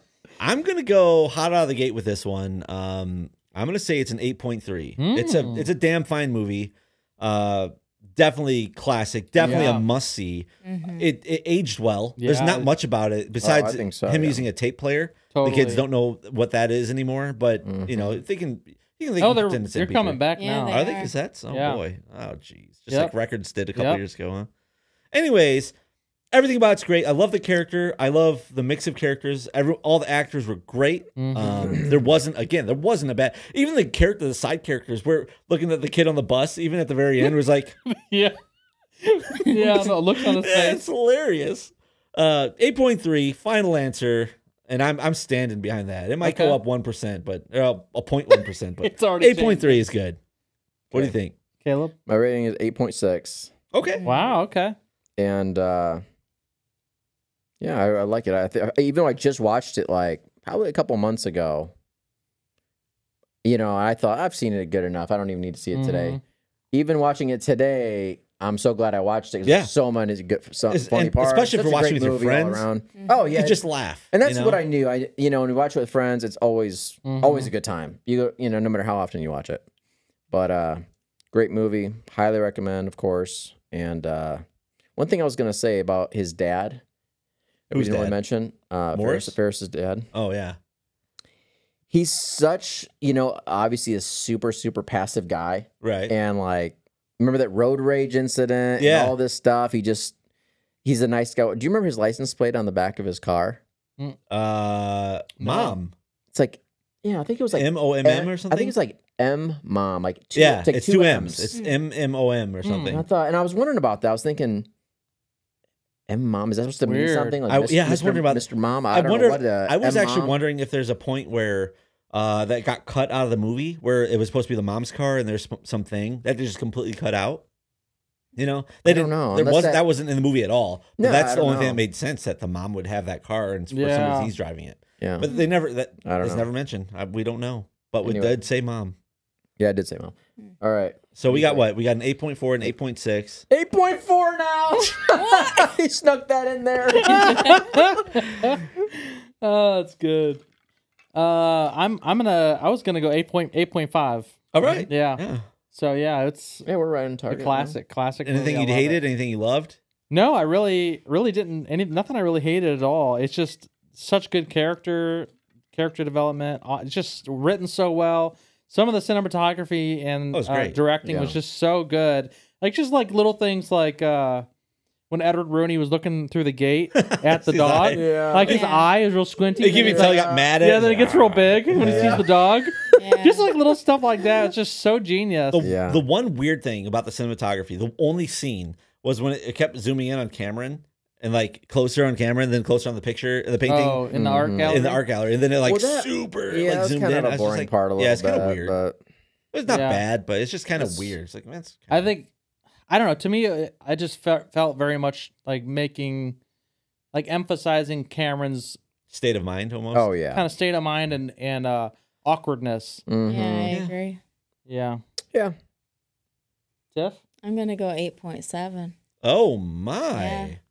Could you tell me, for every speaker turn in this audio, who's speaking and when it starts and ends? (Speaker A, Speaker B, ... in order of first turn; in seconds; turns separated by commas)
Speaker A: 0.4-24.5, Speaker B: 5.0-5.7, Speaker C: 9.4-9.7, Speaker B: 9.4-9.9, Speaker D: 10.6-11.1, Speaker B: 12.2-12.7, Speaker C: 13.4-14.5, Speaker B: 15.3-15.8, Speaker C: 17.6-18.2, Speaker B: 19.2-20.8, Speaker D: 20.4-21.1, Speaker B: 21.5-21.8, Speaker B: 22.9-23.1, Speaker B: 23.8-24.0, Speaker A: 25.1-25.7, Speaker A: 26.3-37.8, Speaker B: 31.2-31.6, Speaker B: 37.9-38.4, Speaker B: 39.0-40.8, Speaker A: 40.4-50.2, Speaker B: 46.2-46.6, Speaker B: 48.8-49.9, Speaker A: 50.9-51.3, Speaker B: 51.6-52.0, Speaker C: 52.1-53.5, Speaker A: 53.7-54.0, Speaker D: 54.0-54.3, Speaker B: 54.0-54.8, Speaker C: 55.2-56.0, Speaker C: 57.6-61.7, Speaker C: 63.4-66.2, Speaker B: 65.7-66.2, Speaker C: 66.7-79.6, Speaker A: 69.5-69.7, Speaker A: 70.7-72.7, Speaker A: 73.3-74.6, Speaker B: 77.0-77.5, Speaker C: 80.3-84.4, Speaker C: 85.0-86.8, Speaker C: 87.7-90.1, Speaker A: 87.7-88.2, Speaker A: 88.9-89.3, Speaker A: 90.1-90.6, Speaker C: 91.9-100.2, Speaker A: 95.8-96.1, Speaker A: 98.8-99.2, Speaker C: 100.8-103.6, Speaker A: 104.3-105.9, Speaker B: 105.4-105.8, Speaker C: 106.3-111.5, Speaker A: 107.5-108.7, Speaker A: 110.3-113.0, Speaker B: 112.6-113.0, Speaker C: 112.9-114.7, Speaker C: 116.1-120.4, Speaker B: 116.8-117.4, Speaker A: 117.5-127.4, Speaker A: 128.4-138.9, Speaker C: 128.8-129.8, Speaker C: 131.0-131.8, Speaker B: 133.7-134.3, Speaker C: 135.0-135.3, Speaker C: 136.0-136.5, Speaker C: 138.0-138.4, Speaker C: 139.6-141.7, Speaker A: 141.2-143.4, Speaker C: 143.5-147.7, Speaker D: 145.1-145.7, Speaker B: 147.0-148.6, Speaker D: 147.1-147.6, Speaker B: 149.4-150.4, Speaker B: 151.1-156.7, Speaker A: 154.5-155.4, Speaker C: 156.7-157.8, Speaker B: 157.3-159.0, Speaker A: 158.2-159.8, Speaker B: 160.1-174.5, Speaker A: 170.3-170.8, Speaker C: 171.0-171.3, Speaker B: 175.1-185.6, Speaker A: 177.0-178.1, Speaker C: 177.9-178.6, Speaker D: 178.5-178.9, Speaker A: 179.6-182.3, Speaker C: 179.7-180.5, Speaker C: 181.8-182.2, Speaker D: 182.9-183.5, Speaker A: 185.5-194.0, Speaker C: 185.6-186.0, Speaker B: 193.7-195.0, Speaker C: 194.1-194.8, Speaker A: 194.6-198.8, Speaker C: 195.7-199.0, Speaker A: 199.5-202.1, Speaker B: 199.7-200.0, Speaker C: 200.8-201.2, Speaker B: 201.9-202.3, Speaker B: 202.9-206.4, Speaker B: 207.1-208.8, Speaker A: 209.1-210.1, Speaker C: 209.9-210.4, Speaker B: 210.3-213.0, Speaker C: 213.1-213.7, Speaker D: 213.3-214.2, Speaker A: 213.7-213.9, Speaker B: 214.7-215.0, Speaker B: 216.9-217.2, Speaker D: 217.4-218.9, Speaker A: 219.2-220.6, Speaker D: 220.2-220.5